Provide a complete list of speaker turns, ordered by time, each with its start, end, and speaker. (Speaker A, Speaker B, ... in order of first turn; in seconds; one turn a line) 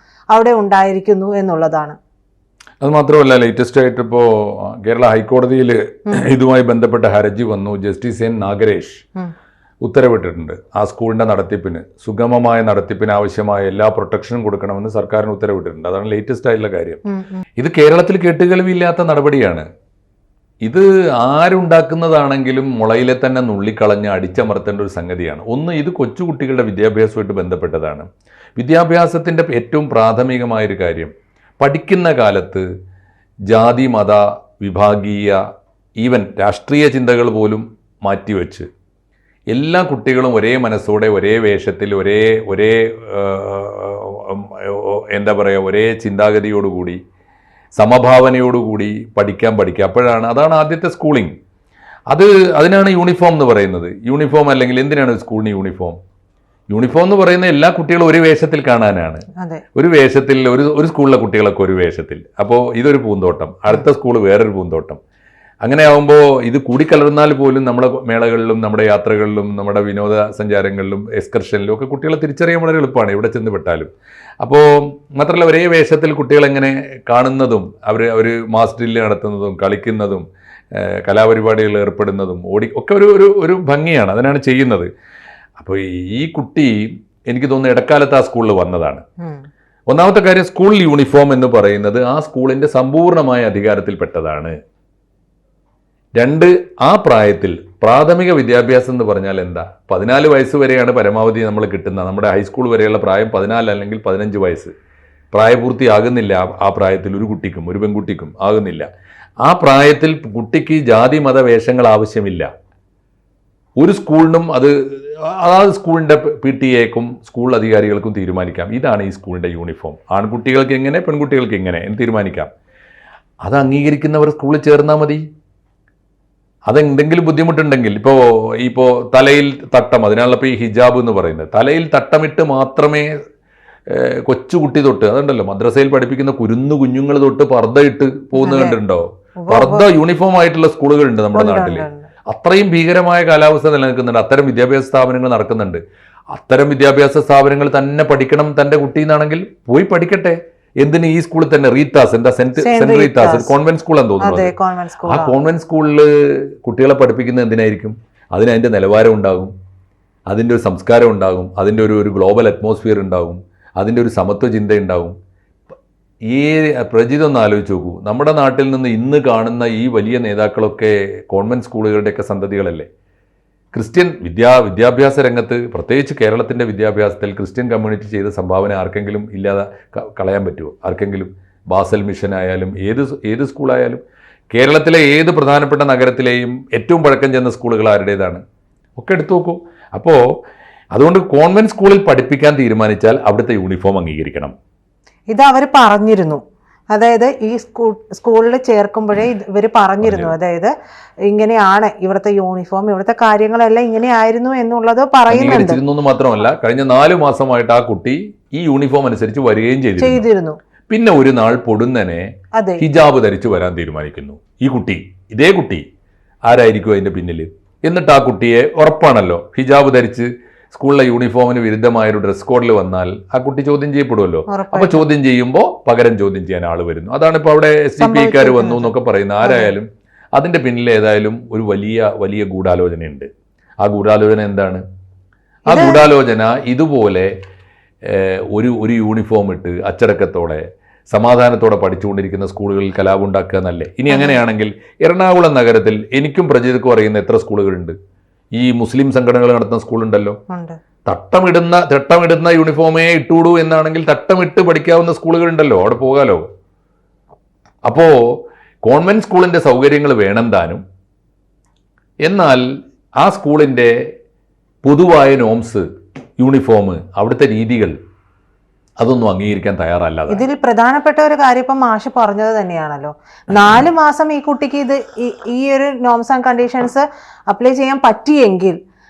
Speaker A: 0.3-2.0
Speaker B: 2.8-9.0
Speaker B: 9.8-17.0
Speaker A: 17.1-17.4
Speaker B: 17.6-19.7
Speaker B: 20.6-28.1
Speaker B: 28.6-32.6
Speaker B: 33.5-35.4
Speaker B: 36.0-38.7
Speaker B: 39.5-47.0
Speaker B: 47.8-51.3
Speaker B: 52.1-56.0
Speaker B: 56.7-59.2
Speaker B: 59.8-65.0
Speaker B: 65.6-73.9
Speaker B: 74.4-80.2
Speaker B: 80.8-84.9
Speaker B: 85.6-89.0
Speaker B: 89.9-94.5
Speaker B: 96.2-104.7
Speaker B: 105.3-108.9
Speaker B: 109.5-112.5
Speaker B: 113.8-122.5
Speaker B: 123.5-125.2
Speaker B: 126.7-133.1
Speaker B: 133.9-145.8
Speaker A: 138.4-138.8
Speaker A: 139.4-139.9
Speaker A: 141.3-142.1
Speaker B: 146.3-154.5
Speaker A: 152.6-153.5
Speaker A: 154.2-155.3
Speaker B: 155.1-159.5
Speaker B: 160.3-165.1
Speaker B: 166.3-172.9
Speaker B: 173.7-184.0
Speaker B: 184.5-188.4
Speaker B: 189.0-190.2
Speaker B: 190.9-194.5
Speaker A: 195.3-196.4
Speaker A: 196.9-200.7
Speaker B: 200.0-200.3
Speaker A: 201.3-205.8
Speaker B: 205.3-210.2
Speaker A: 210.0-210.6
Speaker B: 210.9-212.2
Speaker A: 212.6-212.8
Speaker B: 212.8-215.8
Speaker B: 216.5-233.3
Speaker A: 224.5-225.1
Speaker A: 228.0-229.7
Speaker B: 233.8-234.8
Speaker B: 235.7-237.3
Speaker A: 235.7-236.1
Speaker B: 238.1-247.9
Speaker A: 244.1-244.4
Speaker B: 248.6-250.4
Speaker A: 250.5-250.8
Speaker B: 251.1-256.4
Speaker B: 257.9-260.8
Speaker B: 262.2-262.6
Speaker B: 263.2-263.9
Speaker B: 264.8-265.9
Speaker B: 266.4-267.9
Speaker B: 269.0-270.4
Speaker A: 270.3-278.8